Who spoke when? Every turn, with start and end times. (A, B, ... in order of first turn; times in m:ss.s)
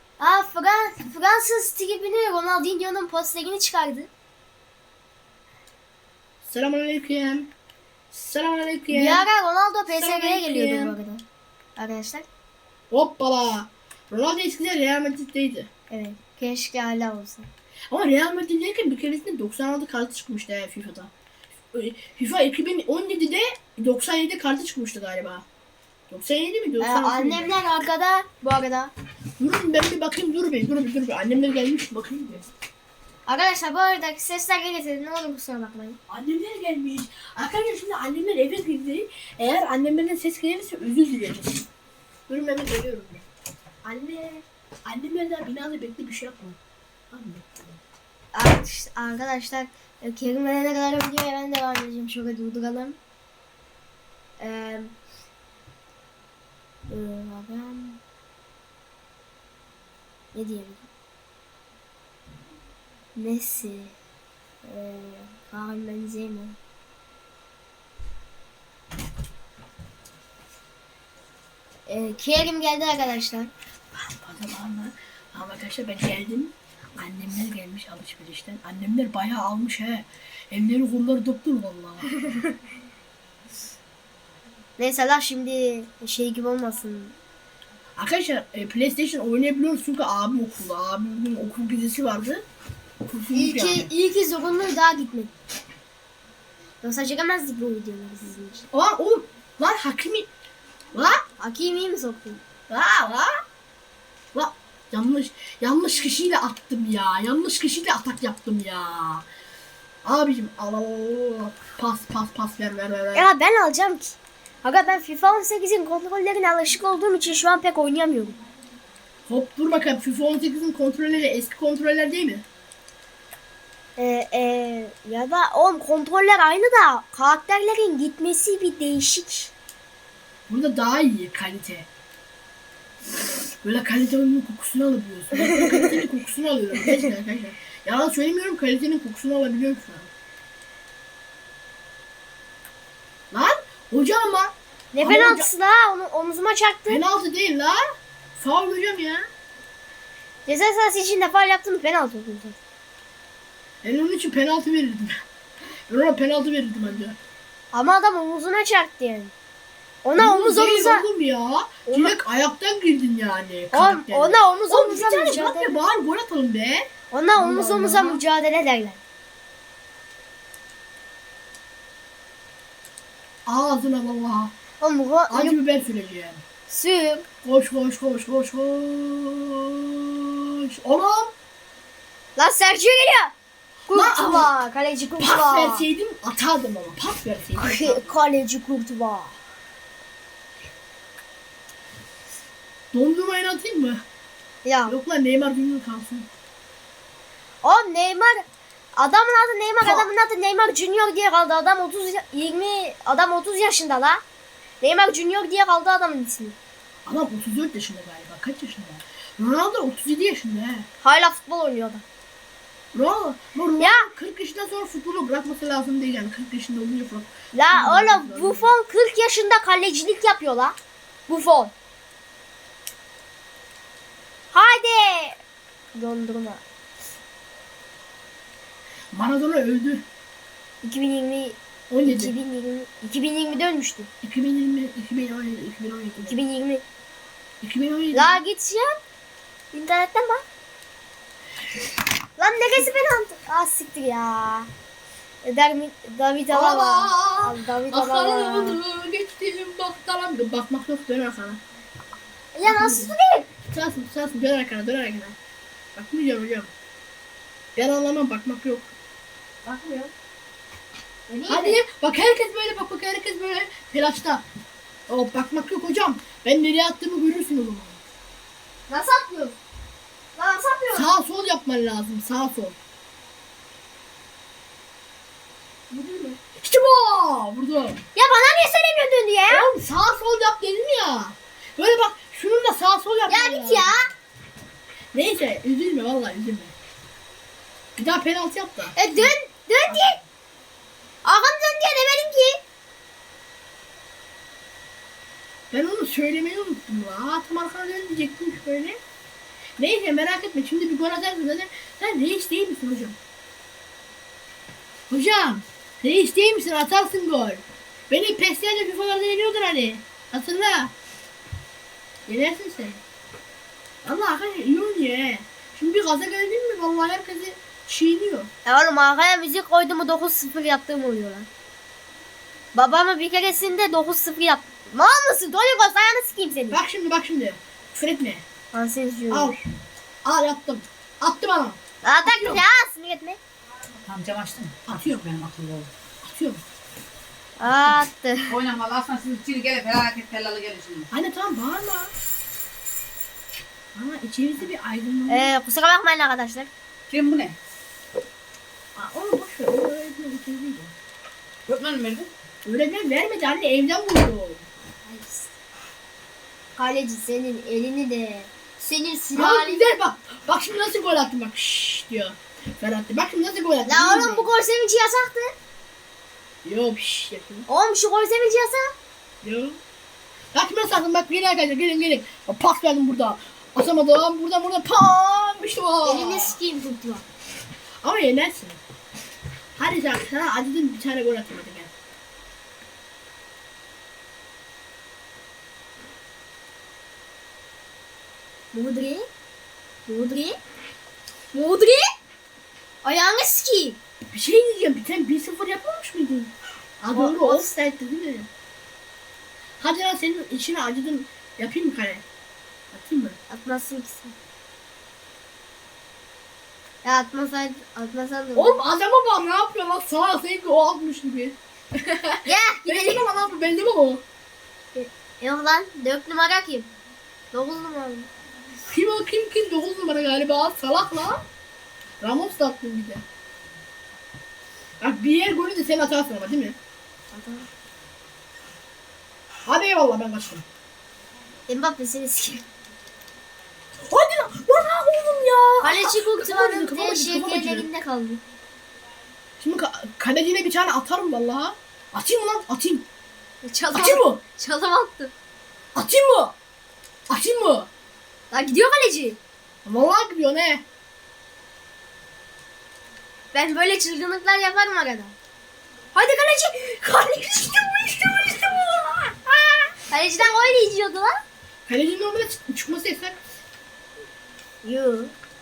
0:00.2-0:04.1 A
0:06.4-0:07.5 B
0:08.1-0:09.3 B
0:08.9-0:11.2 A
0:09.9-0:11.0 B
0:11.8-0:12.2 A
0:12.9-0:15.7 B
0:15.9-0:17.5 A
0:17.9-0:21.1 B
0:21.7-0:25.4 B
0:26.1-0:27.5 B
0:26.8-0:28.9 A
0:29.4-0:32.5 B
0:33.3-0:36.0 A
0:36.1-0:41.7 B
0:42.3-0:43.3 B
0:43.8-0:46.6 B
0:47.1-0:47.8 B
0:48.3-0:53.0 A
0:54.4-0:55.0 A
0:56.9-0:58.0 A
1:00.3-1:00.8 A
1:03.2-1:04.0 A
1:04.6-1:06.6 A
1:11.9-1:13.5 A
1:13.9-1:22.1 B
1:24.8-1:27.2 A
1:28.0-1:32.4 B
1:33.0-1:33.9 B
1:33.3-1:35.3 A
1:36.8-1:38.7 A
1:38.7-1:40.3 B
1:40.9-1:41.2 B
1:41.4-1:42.4 A
1:42.7-1:43.4 B
1:44.3-1:49.3 B
1:50.0-1:53.3 B
1:53.1-1:58.4 A
1:59.3-2:02.4 B
2:04.0-2:09.5 A
2:10.5-2:11.9 B
2:13.6-2:20.1 B
2:15.4-2:15.9 A
2:23.3-2:25.5 B
2:24.9-2:27.0 A
2:26.9-2:27.8 B
2:28.4-2:29.3 B
2:30.5-2:32.6 A
2:33.8-2:35.2 B
2:35.9-2:37.2 B
2:37.7-2:39.3 A
2:40.0-2:41.0 A
2:40.2-2:48.2 B
2:41.9-2:42.2 A
2:43.7-2:45.8 A
2:47.1-2:49.0 A
2:53.5-2:54.5 B
2:54.8-2:55.6 A
2:55.3-2:56.4 B
2:56.7-2:57.3 A
2:57.4-3:01.3 B
3:02.4-3:03.3 A
3:03.9-3:05.9 A
3:03.9-3:04.5 B
3:05.2-3:08.1 B
3:07.6-3:09.4 A
3:12.9-3:14.0 B
3:14.6-3:15.0 A
3:14.9-3:16.3 B
3:17.6-3:24.2 A
3:19.8-3:20.1 B
3:24.8-3:26.6 A
3:27.1-3:30.9 B
3:31.0-3:32.0 A
3:32.9-3:38.7 B
3:33.8-3:34.1 A
3:37.5-3:40.8 A
3:41.3-3:41.7 A
3:44.5-3:45.4 A
3:45.9-3:46.6 A
3:49.1-3:50.0 B
3:50.8-3:54.1 A
3:51.9-3:52.4 B
3:54.2-3:56.4 B
3:56.2-3:56.8 A
3:57.6-3:58.4 B
3:58.1-3:59.0 A
3:59.7-4:00.4 A
4:02.4-4:04.7 A
4:05.4-4:08.8 A
4:06.5-4:11.6 B
4:12.6-4:13.5 A
4:12.6-4:13.2 B
4:13.7-4:15.4 B
4:16.0-4:16.7 B
4:17.8-4:18.9 B
4:19.6-4:20.1 A
4:21.3-4:21.8 A
4:21.5-4:24.4 B
4:25.1-4:28.0 B
4:28.9-4:29.6 A
4:30.4-4:31.1 A
4:30.9-4:32.8 B
4:35.9-4:36.4 A
4:36.6-4:38.0 B
4:38.2-4:39.7 A
4:39.5-4:44.1 B
4:43.3-4:44.1 A
4:45.1-4:46.7 B
4:48.0-4:49.3 B
4:49.0-4:50.2 A
4:51.2-4:52.6 A
4:55.7-4:59.0 B
4:59.8-5:03.2 B
5:05.1-5:10.9 B
5:12.3-5:13.0 B
5:14.0-5:18.5 B
5:18.6-5:21.5 A
5:22.8-5:26.8 A
5:26.7-5:28.4 B
5:28.7-5:29.6 A
5:29.3-5:29.6 B
5:30.2-5:32.6 B
5:32.0-5:33.4 A
5:34.0-5:35.9 C
5:34.9-5:35.3 B
5:36.2-5:36.6 B
5:37.6-5:38.6 A
5:38.5-5:41.1 C
5:41.1-5:42.1 B
5:43.9-5:45.5 B
5:45.3-5:46.7 A
5:47.1-5:47.6 C
5:49.0-5:50.9 B
5:51.7-5:52.3 C
5:52.6-5:54.7 B
5:55.1-5:55.5 A
5:56.8-5:59.8 A
5:59.4-6:04.5 B
6:03.9-6:05.5 A
6:06.6-6:07.7 B
6:07.7-6:08.9 A
6:09.4-6:09.8 B
6:10.5-6:16.6 B
6:16.0-6:17.2 A
6:18.0-6:18.8 B
6:19.8-6:21.9 B
6:28.7-6:29.3 A
6:30.1-6:30.6 A
6:31.5-6:32.1 A
6:33.0-6:34.0 A
6:34.3-6:38.5 B
6:37.1-6:37.7 A
6:39.8-6:42.2 B
6:42.9-6:43.4 B
6:43.5-6:44.4 A
6:47.0-6:48.8 A
6:48.6-6:54.2 B
6:52.5-6:53.3 A
6:55.0-6:56.9 A
6:57.5-6:58.3 A
6:58.9-7:01.4 B
7:02.2-7:03.2 B
7:05.0-7:06.8 B
7:07.3-7:07.7 A
7:09.7-7:10.6 B
7:11.7-7:12.7 A
7:14.0-7:17.9 B
7:15.8-7:18.4 A
7:19.6-7:23.1 B
7:23.6-7:25.3 A
7:23.9-7:24.4 B
7:26.0-7:26.6 B
7:27.3-7:27.9 B
7:28.5-7:29.4 A
7:29.8-7:30.8 B
7:33.5-7:35.4 A
7:36.2-7:41.4 A
7:41.9-7:43.4 B
7:44.8-7:45.3 A